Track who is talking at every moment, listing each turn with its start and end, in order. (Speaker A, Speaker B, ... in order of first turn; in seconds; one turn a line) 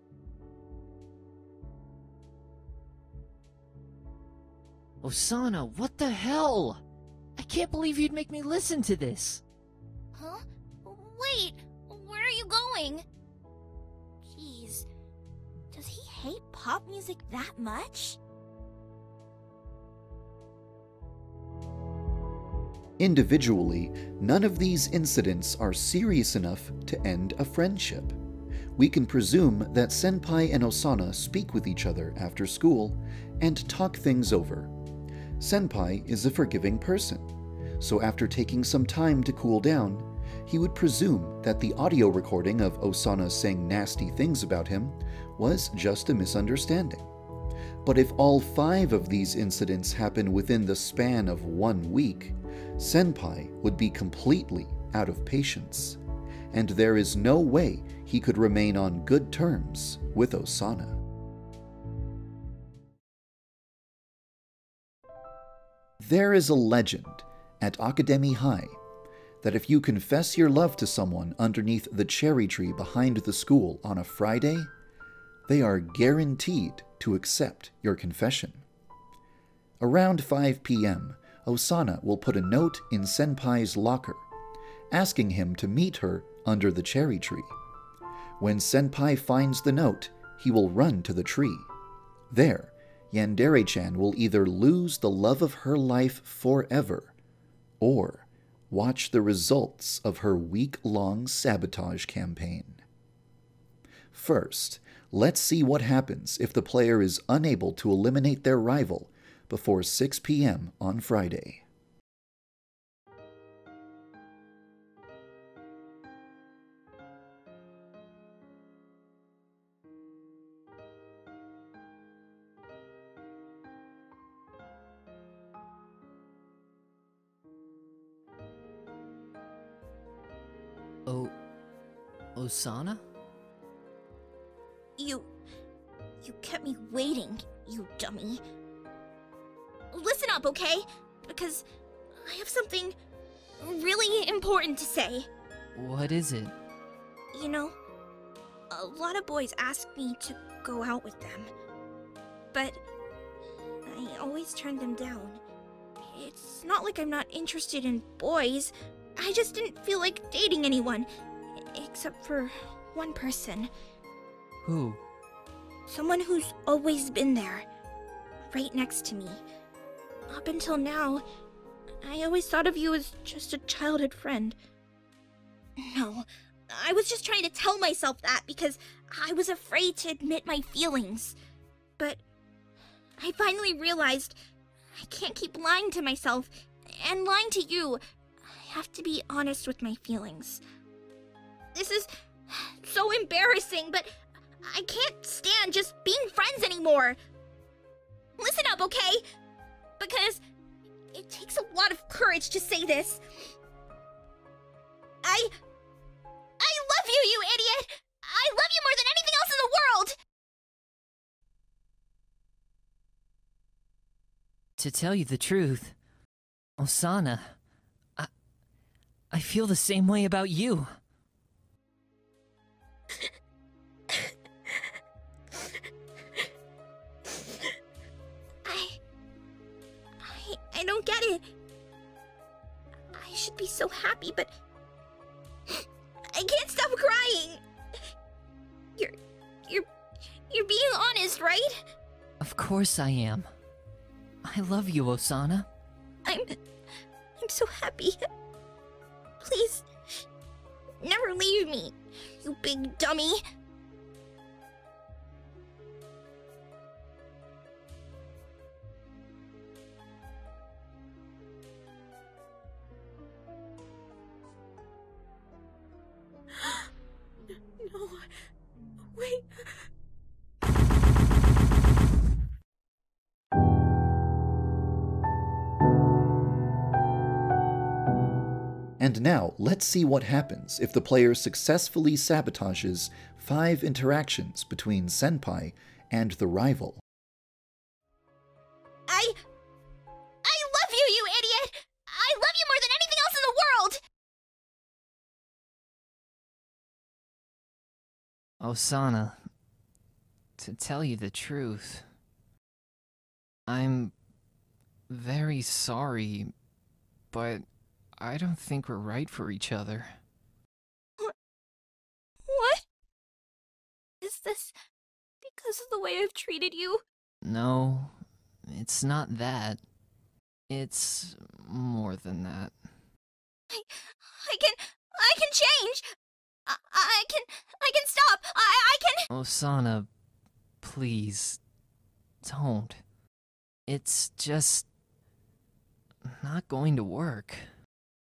Speaker A: 5.0-6.8
Speaker A: 7.3-9.4
Speaker B: 10.1-13.0
Speaker B: 14.2-14.9
Speaker B: 15.7-18.2
Speaker C: 23.0-28.1
Speaker C: 28.8-34.7
Speaker C: 35.4-47.1
Speaker C: 47.8-56.0
Speaker C: 56.5-61.0
Speaker C: 66.0-68.8
Speaker C: 69.4-74.7
Speaker C: 75.5-78.6
Speaker C: 79.8-84.2
Speaker C: 84.9-87.5
Speaker C: 88.4-91.7
Speaker C: 92.3-97.1
Speaker C: 97.8-102.8
Speaker C: 104.1-111.6
Speaker A: 131.1-131.3
Speaker A: 132.3-133.0
Speaker B: 135.0-135.3
Speaker B: 136.2-138.4
Speaker B: 139.9-142.9
Speaker B: 143.6-145.3
Speaker A: 145.7-146.5
Speaker B: 147.3-147.8
Speaker B: 148.7-151.5
Speaker B: 152.5-152.8
Speaker B: 153.8-155.4
Speaker B: 156.0-161.1
Speaker B: 161.6-163.7
Speaker A: 164.6-165.0
Speaker B: 165.9-167.7
Speaker B: 168.5-169.4
Speaker B: 170.3-171.2
Speaker B: 172.0-174.6
Speaker B: 175.8-181.4
Speaker B: 183.2-184.3
Speaker B: 184.9-190.6
Speaker B: 191.7-194.1
Speaker B: 194.6-197.2
Speaker B: 198.4-199.2
Speaker B: 200.0-200.4
Speaker B: 201.1-203.5
Speaker B: 205.2-205.5
Speaker B: 206.6-210.1
Speaker A: 214.8-215.9
Speaker A: 216.8-217.6
Speaker A: 219.3-221.0
Speaker B: 228.6-229.0
Speaker B: 230.2-231.4
Speaker B: 233.1-234.5
Speaker B: 235.7-237.6
Speaker B: 240.5-241.8
Speaker A: 242.4-243.5
Speaker A: 244.4-245.7
Speaker B: 246.2-246.6
Speaker B: 247.4-248.2
Speaker B: 249.4-249.9
Speaker B: 251.0-253.4
Speaker B: 267.8-268.3
Speaker B: 269.1-269.6
Speaker C: 279.0-287.0
Speaker B: 289.1-289.4
Speaker B: 290.4-294.0
Speaker A: 298.6-299.4
Speaker A: 300.6-302.1
Speaker A: 303.7-304.1
Speaker A: 305.1-306.5
Speaker A: 307.3-307.6
Speaker A: 308.2-310.2
Speaker B: 312.4-312.8
Speaker B: 314.2-314.7
Speaker B: 315.4-317.0
Speaker A: 317.4-318.1
Speaker A: 318.6-319.8
Speaker A: 320.7-322.7
Speaker B: 323.7-326.1
Speaker B: 326.6-329.2
Speaker A: 329.3-330.1
Speaker A: 330.8-331.6
Speaker A: 332.4-333.0
Speaker A: 333.9-334.9
Speaker A: 336.2-337.7